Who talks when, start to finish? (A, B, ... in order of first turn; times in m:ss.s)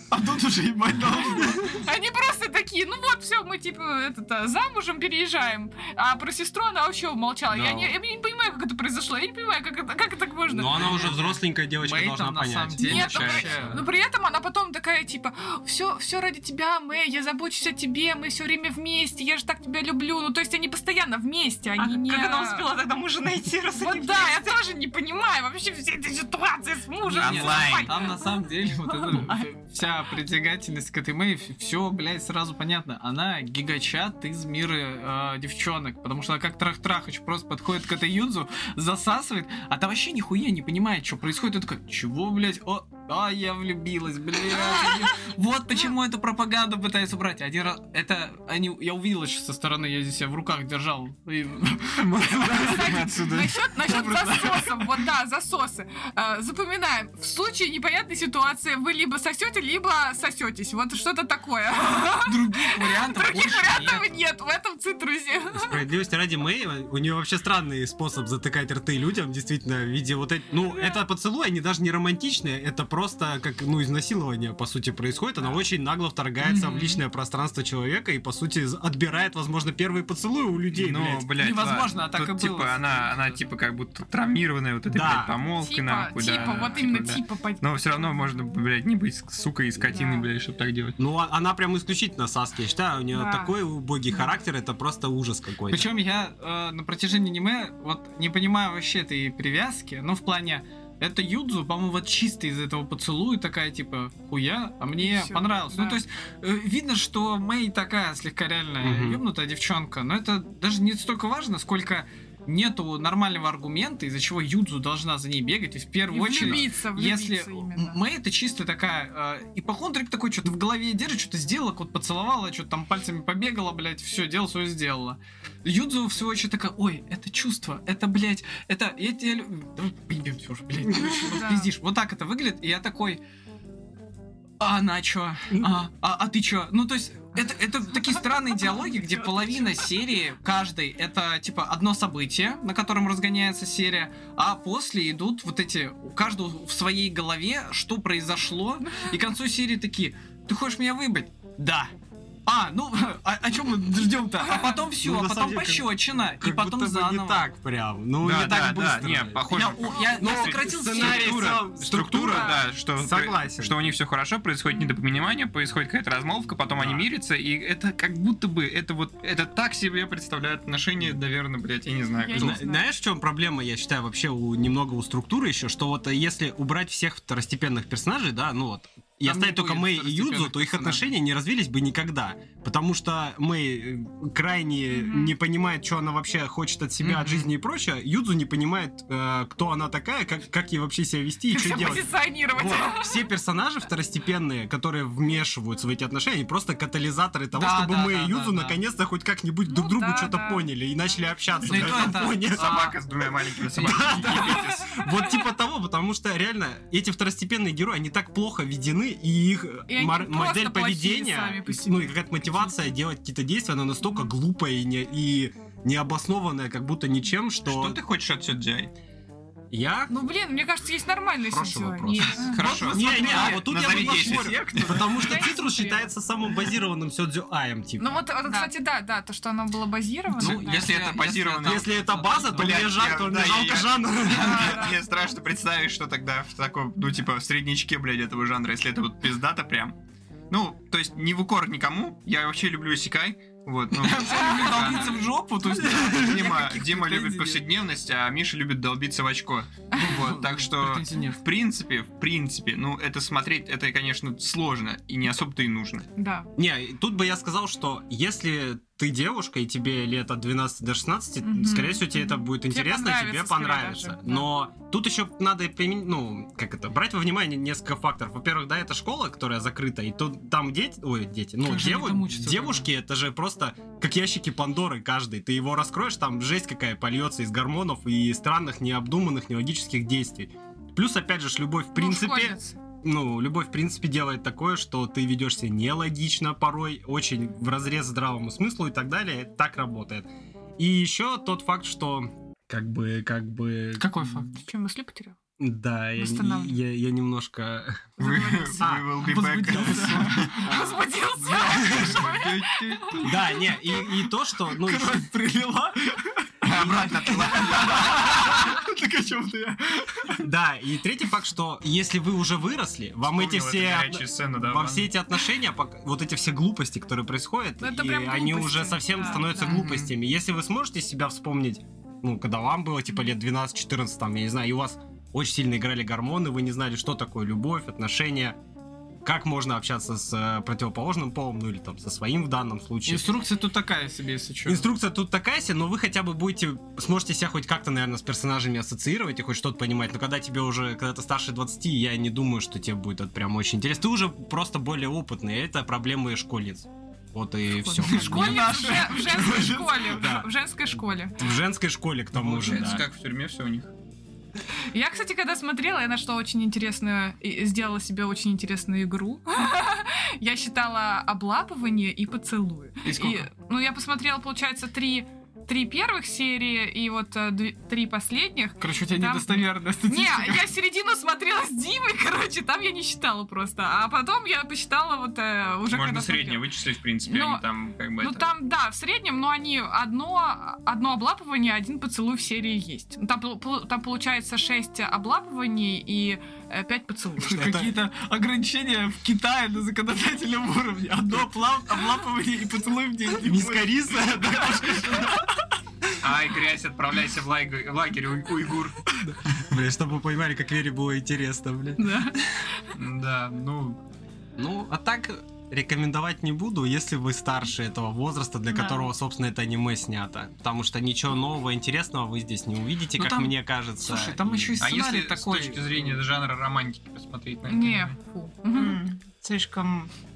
0:00.1-0:01.8 A
0:01.4-0:11.1 B
0:07.5-0:07.9 C
0:10.5-0:13.7 C
0:10.7-0:13.8 A
0:12.8-0:22.8 B
0:13.0-0:13.5 D
0:21.8-0:24.5 E
0:23.7-0:29.4 B
0:27.1-0:52.4 A
0:27.1-0:27.9 D
0:44.6-0:45.0 B
0:51.9-0:53.7 D
0:52.4-1:05.8 B
0:53.8-0:54.8 A
1:02.2-1:04.1 A
1:05.6-1:21.3 C
1:10.6-1:11.0 B
1:16.4-1:17.0 A
1:20.7-1:31.0 D
1:21.4-1:23.4 A
1:24.9-1:25.4 C
1:25.6-1:28.2 B
1:29.9-1:30.3 B
1:31.0-1:35.9 C
1:33.1-1:33.5 B
1:35.7-2:13.2 A
1:45.0-1:46.0 B
1:48.8-1:49.2 C
1:56.1-1:58.0 B
2:11.2-2:11.7 B
2:14.6-2:31.9 A
2:18.6-2:19.0 B
2:28.8-2:29.2 B
2:32.4-2:37.4 A
2:35.0-2:39.4 C
2:38.2-2:52.6 D
2:39.5-2:41.6 A
2:40.2-2:43.9 C
2:46.7-2:47.1 C
2:52.2-2:52.8 B
2:52.3-3:22.9 C
2:59.2-3:01.1 A
3:04.9-3:05.3 B
3:07.0-3:07.5 A
3:11.5-3:13.2 B
3:17.5-3:18.8 A
3:19.6-3:20.7 B
3:21.7-3:23.0 A
3:21.7-3:25.0 D
3:23.7-3:38.0 C
3:24.5-3:25.1 B
3:29.9-3:32.8 B
3:37.6-3:38.9 D
3:39.7-3:40.1 C
3:40.1-3:42.8 B
3:41.4-3:48.2 C
3:42.4-3:45.1 D
3:42.4-3:45.4 A
3:45.2-3:46.1 B
3:48.0-3:50.9 B
3:48.4-3:48.7 E
3:50.4-3:53.0 A
3:50.4-4:00.0 D
3:51.6-3:54.9 C
3:54.3-3:55.0 B
4:00.5-4:05.2 D
4:03.9-4:07.6 A
4:05.8-4:16.1 D
4:09.9-4:11.4 A
4:16.2-4:16.5 B
4:16.6-4:54.4 C
4:21.4-4:24.5 B
4:31.6-4:32.9 A
4:41.9-4:42.8 B
4:54.0-4:54.6 A
4:54.5-4:55.4 B
4:55.6-4:58.1 C
4:56.2-4:56.8 B
4:58.2-4:58.9 B
4:58.2-5:00.6 D
4:58.8-5:02.1 C
4:59.2-5:00.6 A
5:00.6-5:03.3 B
5:01.4-5:02.2 A
5:01.6-5:03.2 D
5:03.2-5:05.3 C
5:04.6-5:10.4 A
5:06.6-5:08.4 D
5:06.7-5:07.1 C
5:10.4-5:28.6 C
5:13.2-5:15.2 D
5:17.8-5:19.9 B
5:19.6-5:20.1 A
5:29.2-5:33.3 C
5:33.0-5:34.8 A
5:34.6-5:49.0 C
5:47.8-5:51.4 B
5:48.0-5:50.2 A
5:50.0-5:50.5 C
5:51.4-5:53.0 C
5:52.4-5:53.9 D
5:54.9-6:16.6 B
6:03.0-6:03.5 A
6:08.8-6:10.7 A
6:15.9-6:18.5 D
6:17.2-6:17.6 B
6:18.2-6:27.7 B
6:27.4-6:35.4 A
6:27.4-6:27.9 C
6:33.4-6:35.4 C
6:36.2-6:39.6 D
6:39.2-6:42.4 C
6:42.0-6:42.4 B
6:42.9-6:44.0 D
6:44.6-6:54.8 C
6:48.7-6:49.1 E
6:53.1-6:56.2 A
6:54.8-6:58.1 D
6:57.7-6:59.0 B
6:58.7-7:00.1 E